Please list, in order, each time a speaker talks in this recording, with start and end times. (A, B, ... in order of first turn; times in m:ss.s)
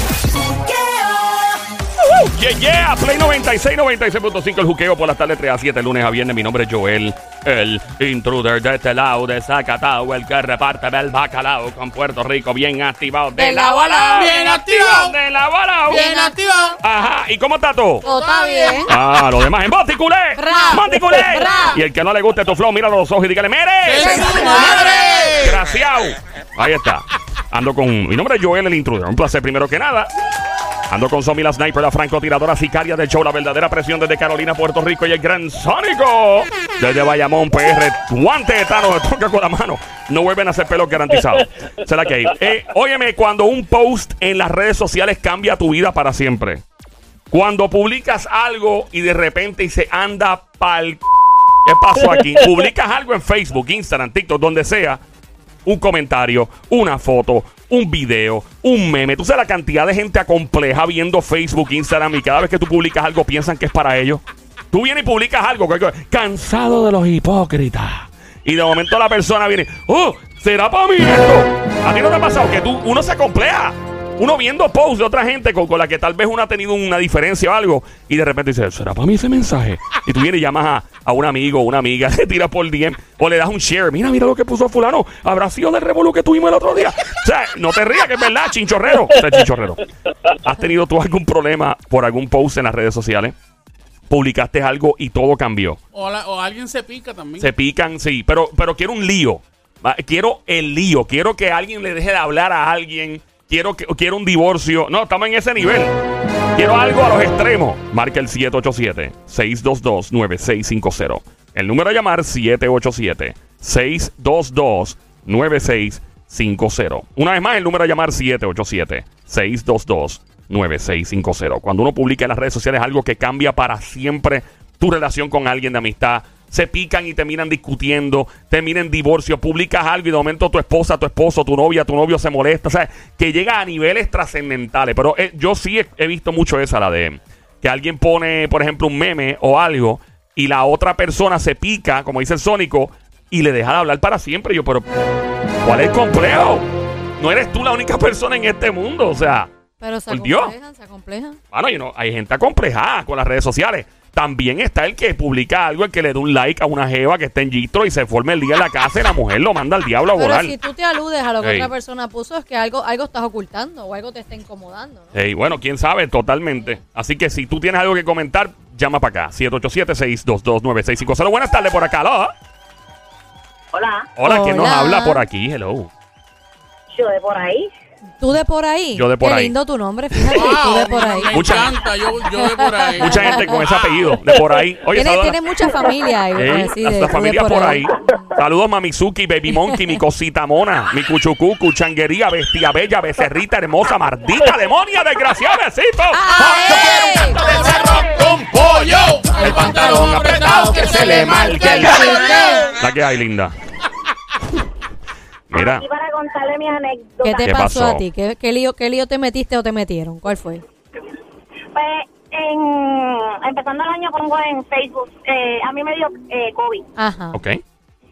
0:01.0-0:01.2 A
0:02.0-0:16.3 B
0:13.4-0:14.6 C
0:14.1-0:15.2 D
0:15.9-0:16.8 D
0:15.9-0:16.3 C
0:16.8-0:18.0 B
0:18.0-0:18.9 C
0:18.1-0:18.9 D
0:18.9-0:30.1 B
0:20.4-0:21.8 C
0:23.8-0:25.6 D
0:24.0-0:25.3 C
0:30.9-0:46.6 B
0:47.3-0:51.0 B
0:51.6-0:55.0 B
0:55.6-1:29.8 B
1:30.4-1:33.4 B
1:34.1-1:35.8 B
1:35.9-1:37.5 D
1:37.4-1:46.0 B
1:46.6-2:24.9 B
2:25.6-2:26.7 B
2:27.2-2:29.5 B
2:29.8-2:31.4 C
2:30.1-2:30.5 B
2:31.5-2:40.6 B
2:40.2-2:45.2 C
2:41.4-2:41.7 B
2:45.1-2:52.4 B
2:53.7-2:54.1 A
2:54.2-2:55.9 B
2:54.2-2:55.2 C
2:56.9-2:57.7 A
2:58.2-3:01.7 C
2:59.0-2:59.6 B
3:00.3-3:03.6 D
3:01.3-3:01.8 B
3:02.4-3:03.6 C
3:03.0-3:05.4 B
3:04.9-3:08.2 C
3:06.4-3:17.0 B
3:16.1-3:17.4 C
3:17.3-3:21.8 D
3:19.4-3:22.2 B
3:19.4-3:19.9 C
3:20.5-3:22.7 C
3:22.8-3:23.6 B
3:25.5-3:25.9 B
3:25.5-3:27.5 A
3:27.2-3:30.6 C
3:27.4-3:28.0 B
3:31.7-3:36.9 A
3:37.0-3:37.4 C
3:37.3-3:37.6 B